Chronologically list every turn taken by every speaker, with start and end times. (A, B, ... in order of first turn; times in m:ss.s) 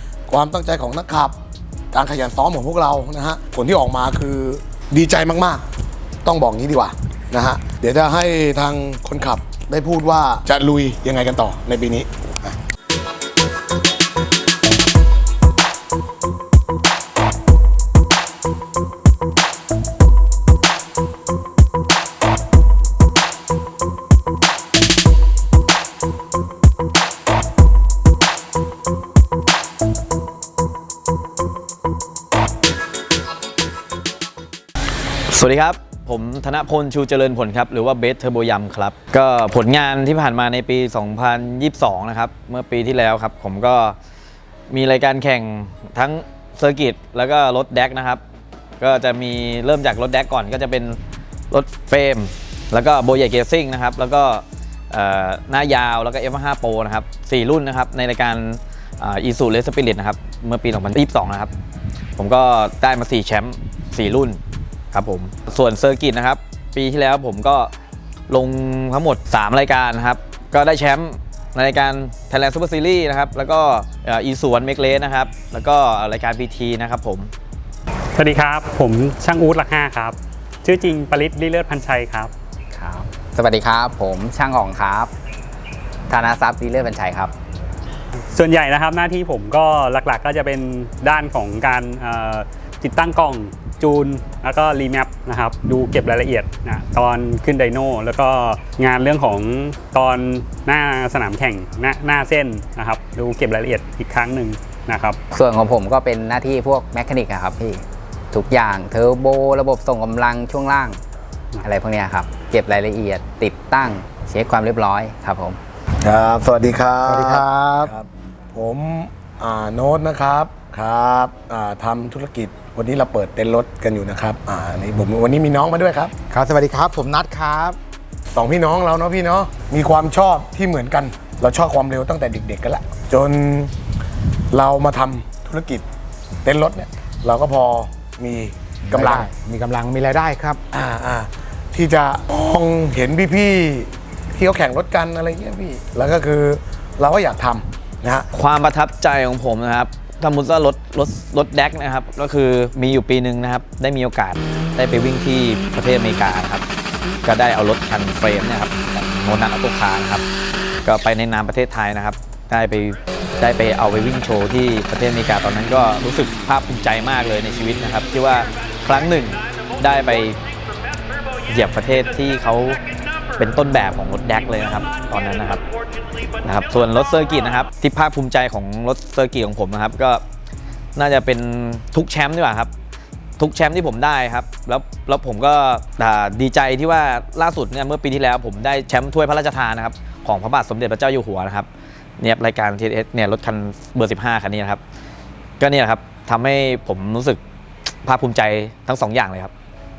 0:00.3-0:01.3 A
0:01.9-0:05.6 A
0:06.2-0:12.6 A
0:35.3-0:44.0 B
0:44.7-0:48.2 B
0:48.8-0:51.0 B
0:51.5-1:01.5 B
1:02.2-1:04.4 B
1:04.9-1:07.7 B
1:08.3-1:17.3 B
1:18.1-1:22.3 C
1:22.7-1:25.1 D
1:26.1-1:27.3 D
1:28.3-1:45.2 C
1:45.3-1:51.0 D
1:51.6-1:55.6 D
1:56.0-2:06.1 A
1:57.0-1:57.9 E
2:06.3-2:07.8 E
2:08.3-2:13.7 A
2:14.5-2:15.8 A
2:16.4-2:19.3 A
2:18.9-2:20.6 E
2:20.7-2:28.3 A
2:28.3-2:36.6 B
2:37.2-2:40.2 B
2:40.8-2:50.4 B
2:51.5-2:52.8 B
2:53.4-2:55.6 B
2:56.4-3:00.2 B
3:01.0-3:02.7 B
3:03.4-3:11.7 B
3:12.2-3:14.8 B
3:15.6-3:17.4 B
3:18.0-3:19.5 B